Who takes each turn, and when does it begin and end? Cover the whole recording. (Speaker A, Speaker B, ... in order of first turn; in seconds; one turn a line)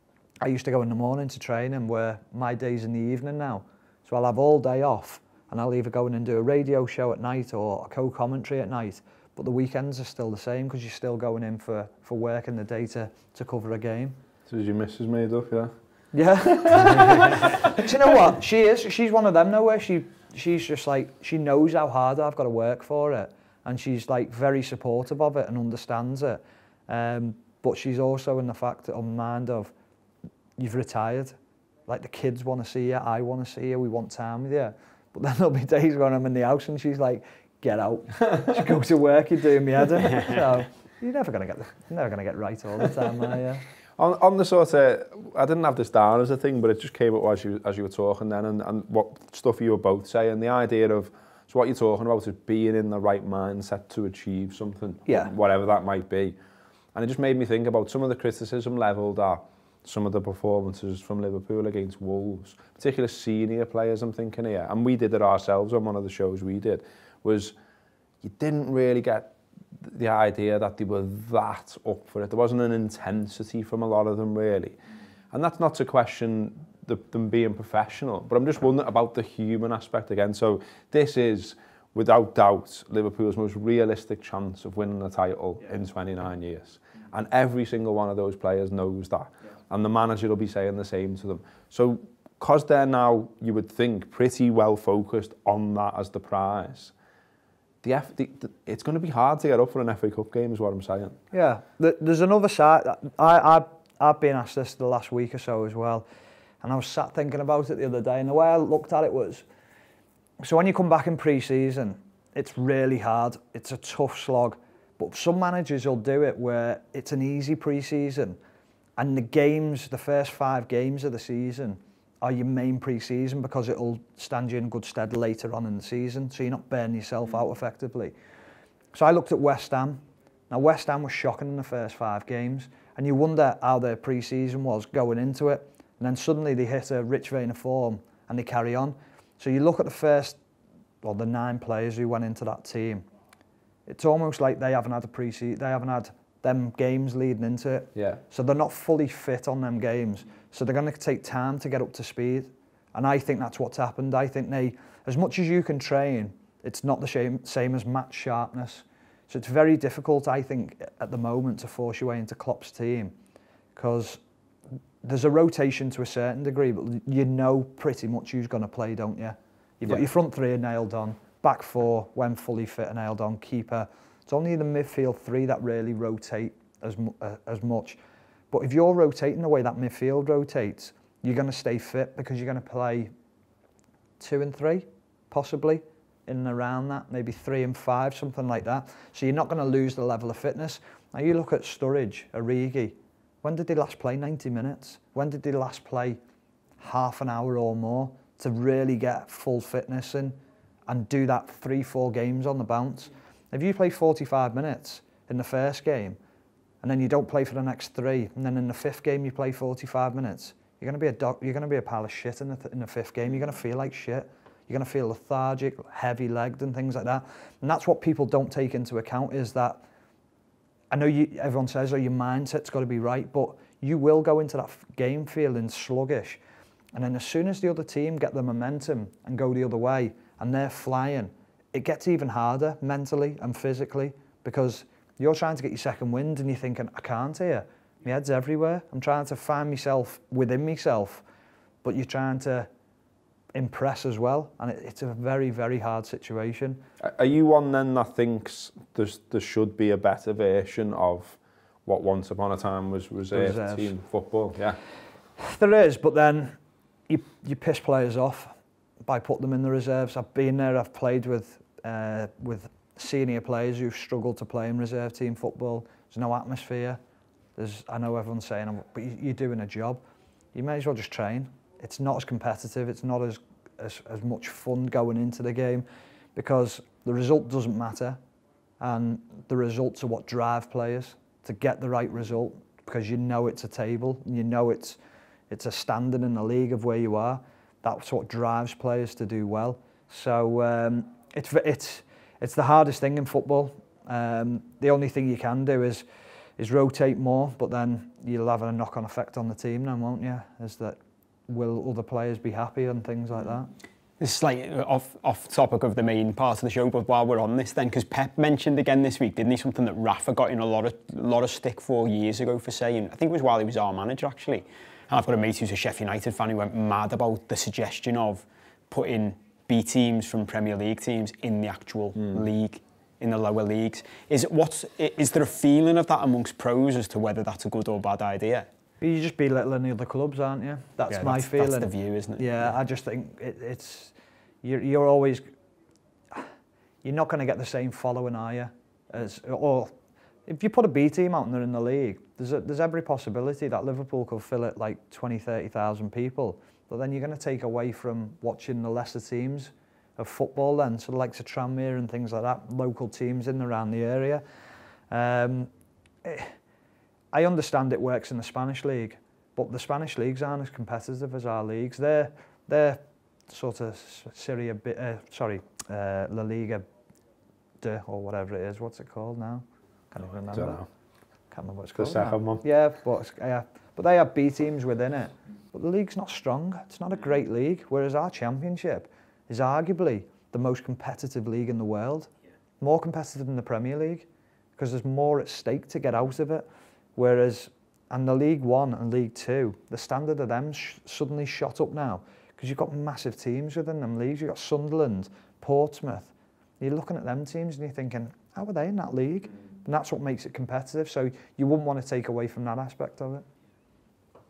Speaker A: 0.4-14.2
Speaker B: 14.5-15.7
Speaker A: 16.1-29.7
Speaker A: 30.6-31.4
Speaker A: 31.9-43.6
Speaker B: 44.0-56.4
Speaker B: 56.9-67.5
Speaker B: 68.2-74.8
Speaker B: 75.3-96.9
Speaker B: 97.8-101.2
Speaker A: 101.3-106.0
Speaker A: 106.6-109.5
Speaker A: 110.4-118.4
Speaker A: 119.0-128.1
Speaker A: 128.9-140.4
Speaker A: 141.0-143.0
Speaker A: 143.9-163.1
Speaker A: 163.8-164.2
Speaker A: 165.0-178.0
Speaker A: 178.5-183.1
Speaker A: 184.2-196.2
Speaker A: 196.8-200.4
Speaker A: 200.9-206.2
Speaker A: 206.8-219.8
Speaker A: 220.9-226.4
Speaker A: 226.9-241.2
Speaker A: 241.8-242.7
Speaker A: 243.6-246.8
Speaker B: 247.0-254.8
Speaker A: 253.3-253.9
Speaker A: 255.4-256.6
Speaker A: 257.1-258.5
Speaker A: 259.1-267.0
Speaker A: 267.6-270.0
Speaker A: 270.6-278.2
Speaker A: 278.8-285.0
Speaker A: 285.5-296.0
Speaker A: 296.6-303.7
Speaker C: 304.2-328.7
Speaker A: 329.0-335.4
Speaker C: 331.1-332.7
Speaker A: 337.0-339.9
Speaker A: 340.5-354.4
Speaker A: 355.1-355.7
Speaker A: 356.2-356.5
Speaker A: 357.3-366.9
Speaker A: 367.8-370.8
Speaker B: 370.5-370.8
Speaker A: 371.5-384.3
Speaker B: 372.0-372.6
Speaker A: 384.8-403.4